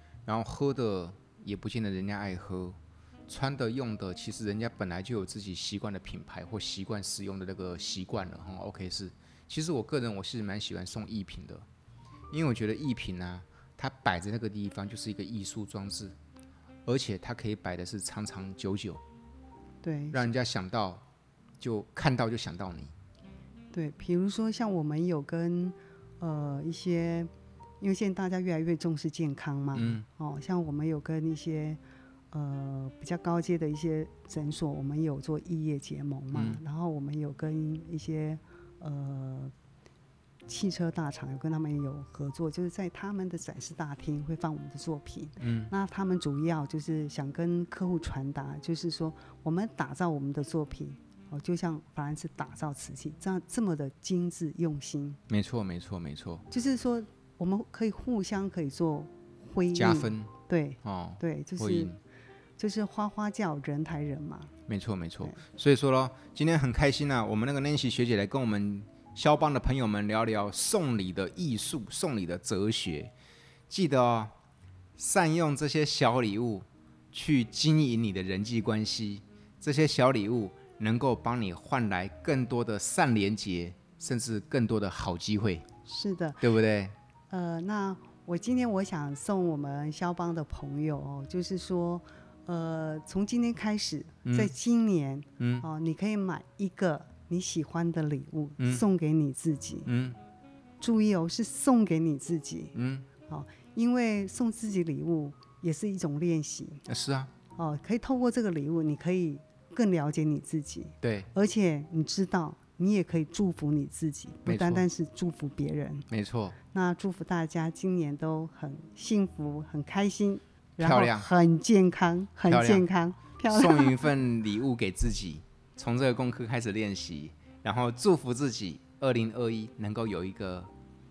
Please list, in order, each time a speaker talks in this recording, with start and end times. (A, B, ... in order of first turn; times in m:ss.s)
0:00.2-0:11.6 A
0:12.3-0:16.1 A
0:16.8-0:19.0 A
0:19.8-0:20.2 B
0:20.1-0:21.0 A
0:21.6-0:22.9 A
0:23.7-0:27.3 B
0:27.8-0:31.8 B
0:29.7-0:30.0 A
0:32.3-0:39.5 B
0:36.3-0:36.6 A
0:40.5-0:55.2 B
0:45.4-0:45.7 A
0:55.3-0:56.4 A
0:56.5-1:01.9 B
0:59.7-1:00.3 A
1:00.8-1:02.0 A
1:02.6-1:04.5 B
1:04.7-1:13.1 A
1:13.7-1:14.3 A
1:15.0-1:25.7 A
1:25.8-1:26.4 B
1:26.4-1:27.0 A
1:27.3-1:39.9 B
1:34.2-1:34.5 A
1:35.4-1:35.6 A
1:38.6-1:38.8 A
1:39.8-1:40.2 A
1:40.8-1:42.7 B
1:42.7-1:43.1 A
1:43.3-1:46.8 B
1:46.8-1:47.3 A
1:47.6-1:56.1 B
1:51.0-1:51.3 A
1:54.4-1:54.8 A
1:56.1-1:56.6 A
1:56.7-2:04.0 B
2:00.8-2:01.3 A
2:02.5-2:02.9 A
2:03.5-2:10.7 A